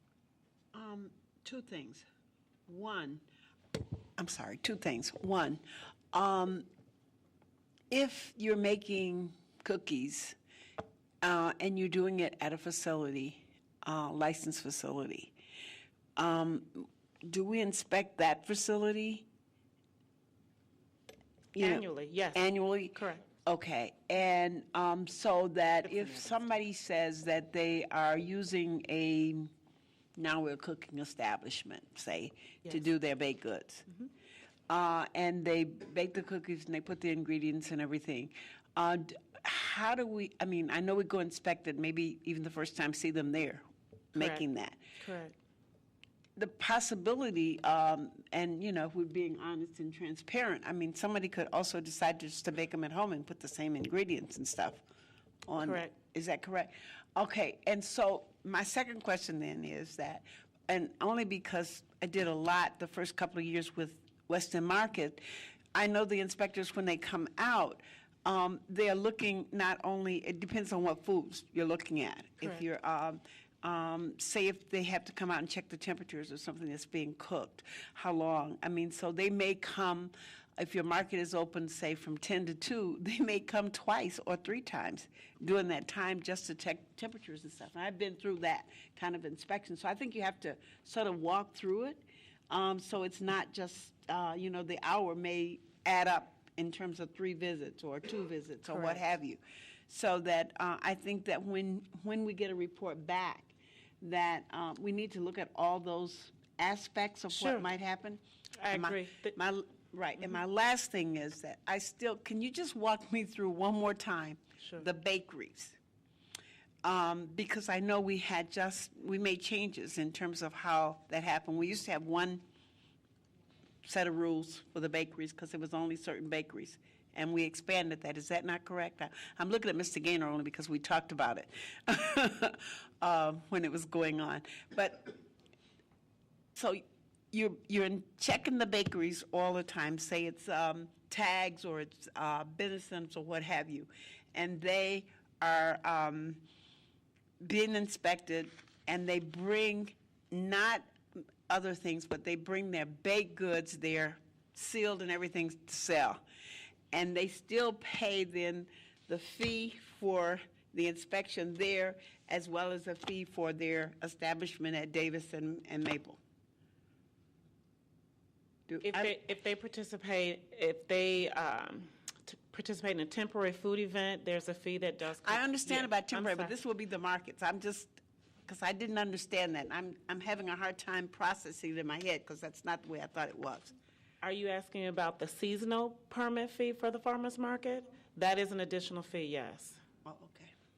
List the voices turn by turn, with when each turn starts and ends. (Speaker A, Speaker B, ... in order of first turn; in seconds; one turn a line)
Speaker A: 0.7-2.0
Speaker A: 2.7-3.2
Speaker A: 4.2-5.6
Speaker A: 6.1-6.7
Speaker A: 7.9-10.4
Speaker A: 11.2-15.3
Speaker A: 16.1-19.2
Speaker A: 21.5-29.5
Speaker B: 21.6-23.2
Speaker B: 25.8-26.3
Speaker A: 30.1-33.9
Speaker A: 34.7-44.8
Speaker B: 44.1-44.4
Speaker B: 45.0-45.3
Speaker A: 46.4-54.8
Speaker A: 55.5-65.2
Speaker B: 55.6-55.9
Speaker A: 65.7-115.8
Speaker B: 98.7-99.0
Speaker B: 107.3-107.7
Speaker B: 108.6-109.3
Speaker A: 116.8-122.4
Speaker A: 123.8-135.2
Speaker A: 136.6-146.4
Speaker A: 147.4-150.9
Speaker A: 151.5-156.2
Speaker A: 156.9-166.2
Speaker A: 168.7-169.2
Speaker B: 168.8-176.5
Speaker A: 175.2-177.9
Speaker A: 178.4-183.7
Speaker B: 184.2-189.8
Speaker A: 190.0-190.5